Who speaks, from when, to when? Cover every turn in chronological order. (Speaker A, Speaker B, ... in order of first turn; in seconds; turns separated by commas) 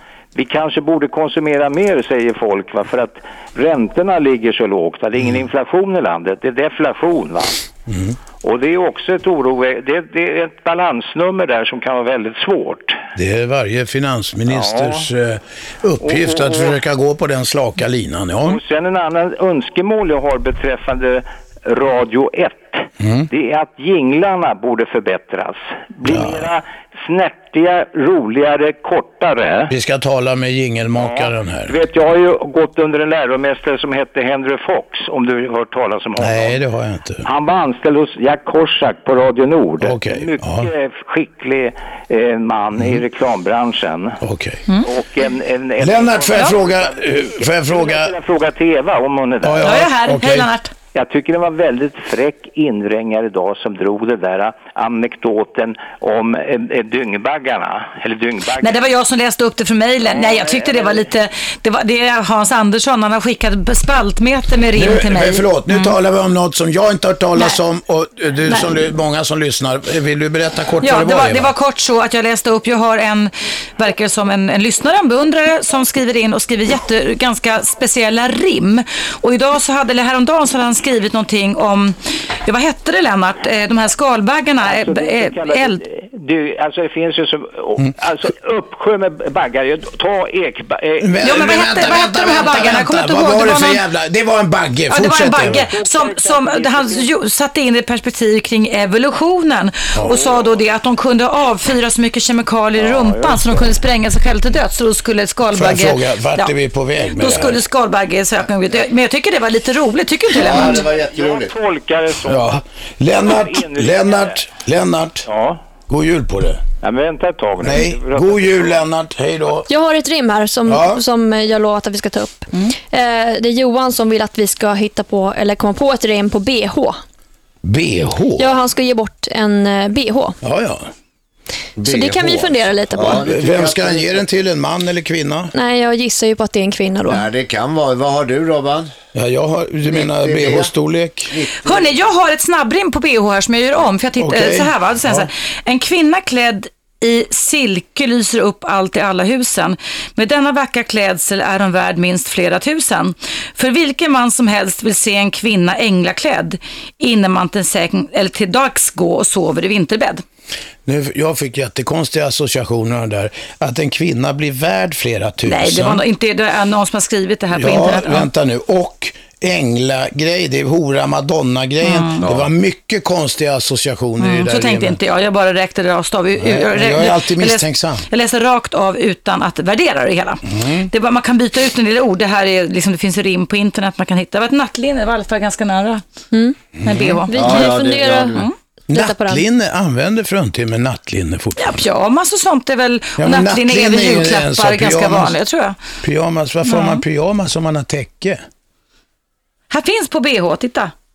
Speaker A: 0.3-7.6, Speaker B: 7.9-8.2, Speaker A: 8.4-13.0, Speaker B: 13.1-18.6, Speaker A: 14.5-15.0, Speaker A: 16.0-16.7, Speaker A: 18.4-29.7, Speaker B: 23.0-23.3, Speaker B: 26.0-26.5, Speaker B: 29.7-31.7, Speaker A: 31.0-36.6, Speaker B: 36.2-37.2, Speaker A: 37.2-44.2, Speaker B: 39.8-40.7, Speaker B: 44.2-44.6, Speaker A: 44.8-49.8, Speaker B: 45.8-48.1, Speaker B: 49.4-50.5, Speaker C: 49.6-50.7, Speaker A: 50.9-58.8, Speaker C: 58.6-65.9, Speaker A: 60.0-61.0, Speaker B: 64.7-71.5, Speaker C: 70.8-85.8, Speaker A: 84.6-91.6, Speaker B: 91.0-95.7, Speaker C: 91.2-93.8, Speaker C: 94.9-110.9, Speaker A: 95.4-97.1, Speaker B: 99.9-100.2, Speaker A: 102.8-103.6, Speaker B: 105.5-107.6, Speaker D: 110.3-111.5, Speaker A: 111.0-112.6, Speaker B: 112.2-115.2, Speaker A: 113.2-114.4, Speaker A: 115.2-115.6, Speaker B: 115.9-116.6, Speaker A: 116.8-118.8, Speaker B: 117.6-119.7, Speaker E: 119.7-127.0, Speaker B: 120.7-121.0, Speaker B: 127.6-128.6, Speaker E: 128.4-130.4, Speaker B: 130.4-130.9, Speaker D: 131.8-134.2, Speaker E: 131.8-133.2, Speaker B: 132.9-135.5, Speaker E: 135.5-137.2, Speaker D: 137.0-138.9, Speaker B: 139.1-141.3, Speaker D: 139.9-140.7, Speaker D: 141.3-142.0, Speaker C: 141.6-160.2, Speaker B: 144.2-145.3, Speaker B: 160.8-166.0, Speaker C: 165.4-168.3, Speaker B: 167.5-175.0, Speaker C: 171.8-172.2, Speaker D: 172.2-172.5, Speaker C: 174.2-186.0, Speaker B: 176.4-178.1, Speaker B: 180.5-180.9, Speaker B: 186.8-187.2, Speaker C: 186.8-187.7, Speaker E: 187.3-189.4, Speaker D: 187.3-188.5, Speaker B: 188.9-191.8, Speaker C: 191.6-195.8, Speaker B: 193.2-195.3, Speaker B: 196.0-198.4, Speaker C: 196.6-197.0, Speaker C: 199.7-200.9